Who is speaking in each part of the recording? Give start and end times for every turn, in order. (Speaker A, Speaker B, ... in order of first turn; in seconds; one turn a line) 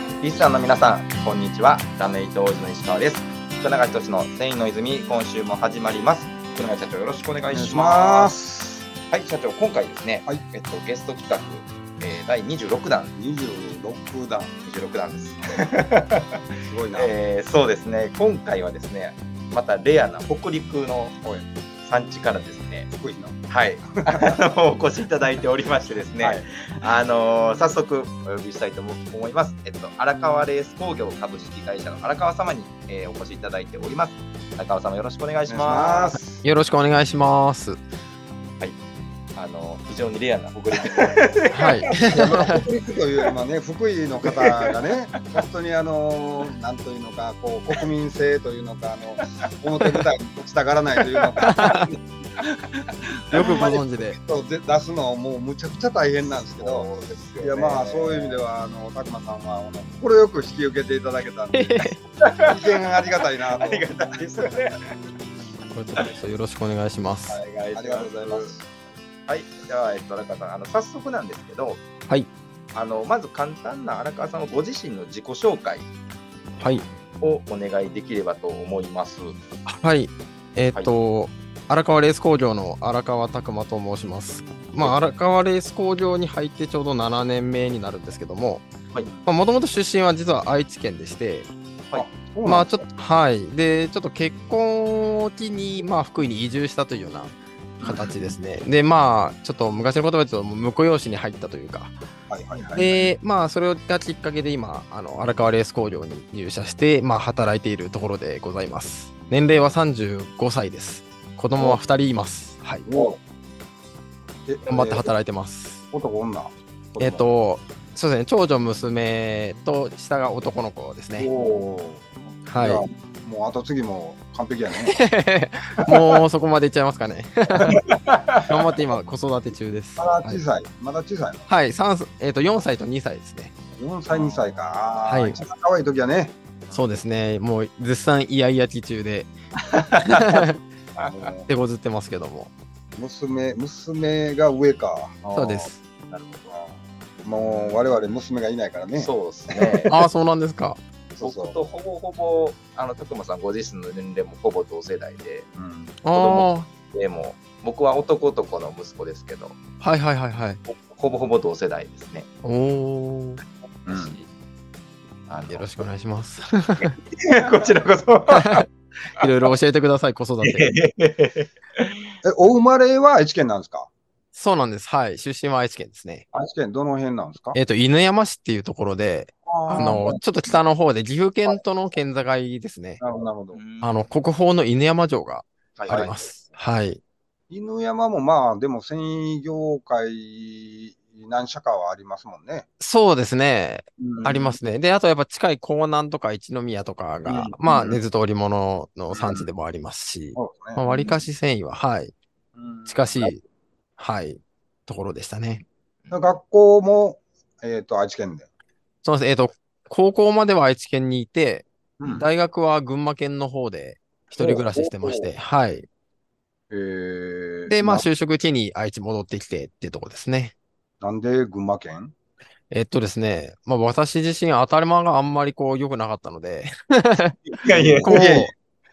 Speaker A: 0.2-8.3
Speaker B: 7.5-8.8
Speaker A: 9.1-13.1
Speaker B: 13.2-14.5
Speaker A: 14.6-16.2
Speaker B: 16.6-17.1
Speaker A: 16.9-21.2
Speaker A: 21.8-22.9
Speaker B: 22.9-23.4
Speaker A: 23.5-36.2
Speaker B: 26.2-26.4
Speaker B: 35.5-36.4
Speaker C: 36.4-37.8
Speaker A: 39.4-42.2
Speaker C: 41.5-42.6
Speaker B: 41.9-52.0
Speaker A: 51.2-51.9
Speaker C: 51.4-51.9
Speaker A: 52.4-53.6
Speaker B: 53.3-61.7
Speaker C: 53.3-54.2
Speaker A: 56.2-58.4
Speaker C: 61.5-62.0
Speaker A: 62.3-62.7
Speaker B: 62.5-64.2
Speaker A: 63.4-64.8
Speaker C: 65.7-67.4
Speaker A: 67.3-68.7
Speaker B: 67.7-68.6
Speaker A: 69.3-71.9
Speaker A: 72.7-75.9
Speaker C: 76.6-76.8
Speaker A: 77.2-79.4
Speaker C: 79.7-88.7
Speaker A: 84.8-85.1
Speaker C: 89.2-91.5
Speaker B: 91.9-92.8
Speaker C: 92.5-101.9
Speaker A: 97.8-98.1
Speaker B: 102.3-103.0
Speaker C: 102.7-112.9
Speaker B: 112.9-113.2
Speaker B: 114.5-115.1
Speaker C: 114.7-115.9
Speaker B: 115.9-117.3
Speaker C: 117.0-121.3
Speaker B: 121.2-125.0
Speaker C: 122.5-122.8
Speaker C: 124.9-127.7
Speaker A: 127.7-128.4
Speaker C: 128.5-130.4
Speaker B: 130.0-131.5
Speaker C: 131.5-133.6
Speaker B: 133.8-136.3
Speaker A: 134.1-135.1
Speaker C: 135.1-135.4
Speaker C: 136.7-139.3
Speaker A: 139.9-140.3
Speaker C: 140.1-140.6
Speaker B: 141.1-141.5
Speaker C: 141.5-142.5
Speaker B: 143.0-145.7
Speaker C: 145.3-145.8
Speaker A: 146.1-146.5
Speaker B: 146.5-149.1
Speaker A: 147.4-148.0
Speaker A: 148.9-149.9
Speaker C: 149.9-150.8
Speaker A: 151.1-155.5
Speaker B: 151.2-151.6
Speaker B: 155.6-155.9
Speaker C: 156.0-156.7
Speaker A: 156.1-159.6
Speaker C: 159.8-160.6
Speaker A: 160.8-162.3
Speaker C: 162.4-163.4
Speaker A: 163.8-164.3
Speaker B: 163.9-164.2
Speaker A: 165.3-165.7
Speaker C: 165.5-166.9
Speaker A: 166.8-168.7
Speaker C: 168.3-168.6
Speaker C: 169.2-170.7
Speaker A: 169.2-169.5
Speaker A: 170.4-171.9
Speaker B: 172.2-173.9
Speaker C: 174.3-176.3
Speaker B: 176.3-177.6
Speaker C: 177.6-183.0
Speaker B: 179.5-180.2
Speaker B: 183.0-183.6
Speaker A: 183.5-184.0
Speaker C: 183.8-187.0
Speaker A: 185.8-186.4
Speaker B: 187.5-192.7
Speaker C: 192.8-202.1
Speaker B: 194.0-194.3
Speaker A: 194.2-194.6
Speaker A: 197.3-197.6
Speaker B: 197.6-198.0
Speaker B: 200.4-201.2
Speaker B: 202.6-203.1
Speaker C: 202.9-203.4
Speaker C: 204.0-205.6
Speaker A: 206.0-206.4
Speaker B: 206.1-208.5
Speaker C: 209.0-215.9
Speaker B: 212.0-212.3
Speaker B: 214.4-215.3
Speaker B: 216.7-218.1
Speaker C: 217.7-220.5
Speaker B: 221.0-222.1
Speaker C: 222.7-227.4
Speaker A: 227.6-228.2
Speaker B: 227.7-228.5
Speaker C: 228.1-228.5